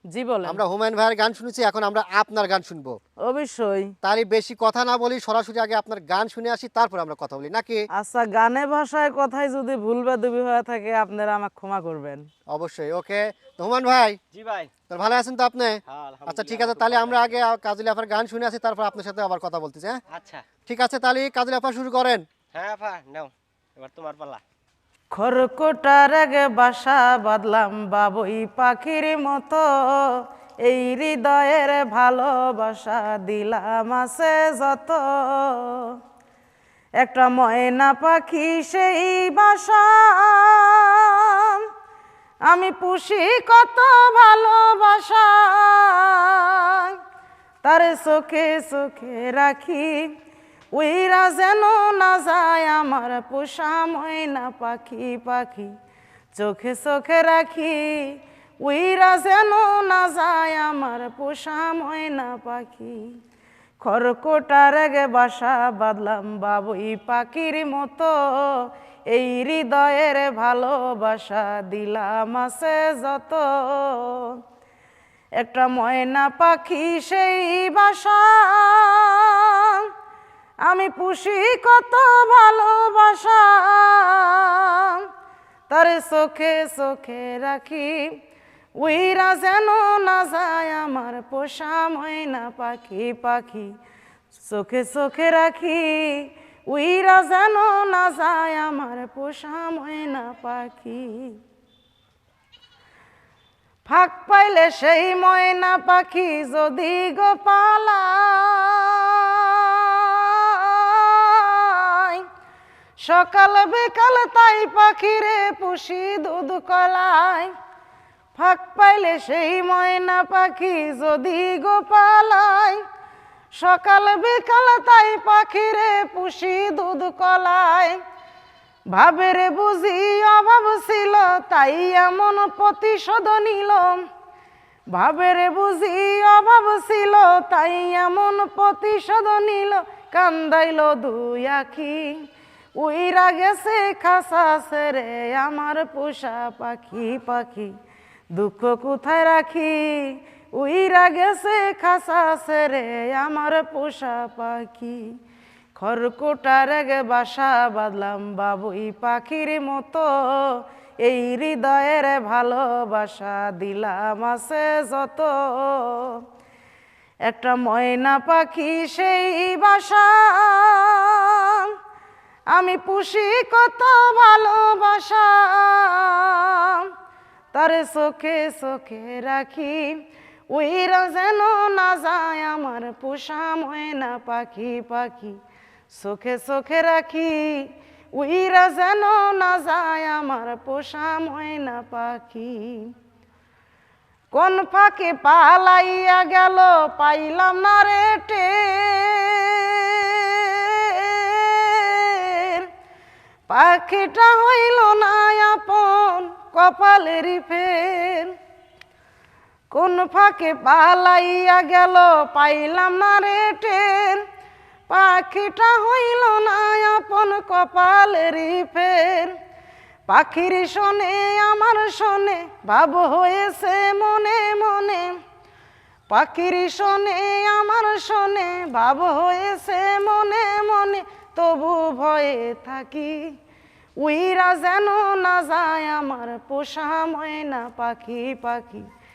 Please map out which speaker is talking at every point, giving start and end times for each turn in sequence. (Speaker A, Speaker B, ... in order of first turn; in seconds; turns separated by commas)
Speaker A: 0.1-0.6, Speaker B: 0.4-3.0, Speaker A: 3.2-3.9, Speaker B: 4.0-7.8, Speaker A: 7.9-12.2, Speaker B: 12.5-14.2, Speaker B: 14.9-20.0, Speaker C: 16.1-17.2, Speaker C: 20.1-20.4, Speaker B: 20.6-22.2, Speaker C: 22.5-24.4, Speaker A: 25.1-35.9, Speaker A: 37.0-41.6, Speaker A: 42.5-47.0, Speaker A: 47.6-50.0, Speaker A: 50.7-55.7, Speaker A: 56.3-63.1, Speaker A: 63.8-74.4, Speaker A: 75.4-79.9, Speaker A: 80.6-85.1, Speaker A: 85.7-88.1, Speaker A: 88.8-93.7, Speaker A: 94.4-101.4, Speaker A: 103.8-112.2, Speaker A: 113.0-117.5, Speaker A: 118.3-122.8, Speaker A: 123.5-128.0, Speaker A: 128.9-134.0, Speaker A: 134.9-142.1, Speaker A: 142.8-147.7, Speaker A: 148.3-155.1, Speaker A: 155.8-166.2, Speaker A: 167.2-171.7, Speaker A: 172.5-176.9, Speaker A: 177.5-192.9, Speaker A: 194.3-202.7, Speaker A: 203.5-208.3, Speaker A: 209.7-214.2, Speaker A: 214.9-219.4, Speaker A: 220.1-225.2, Speaker A: 226.1-233.3, Speaker A: 234.0-238.9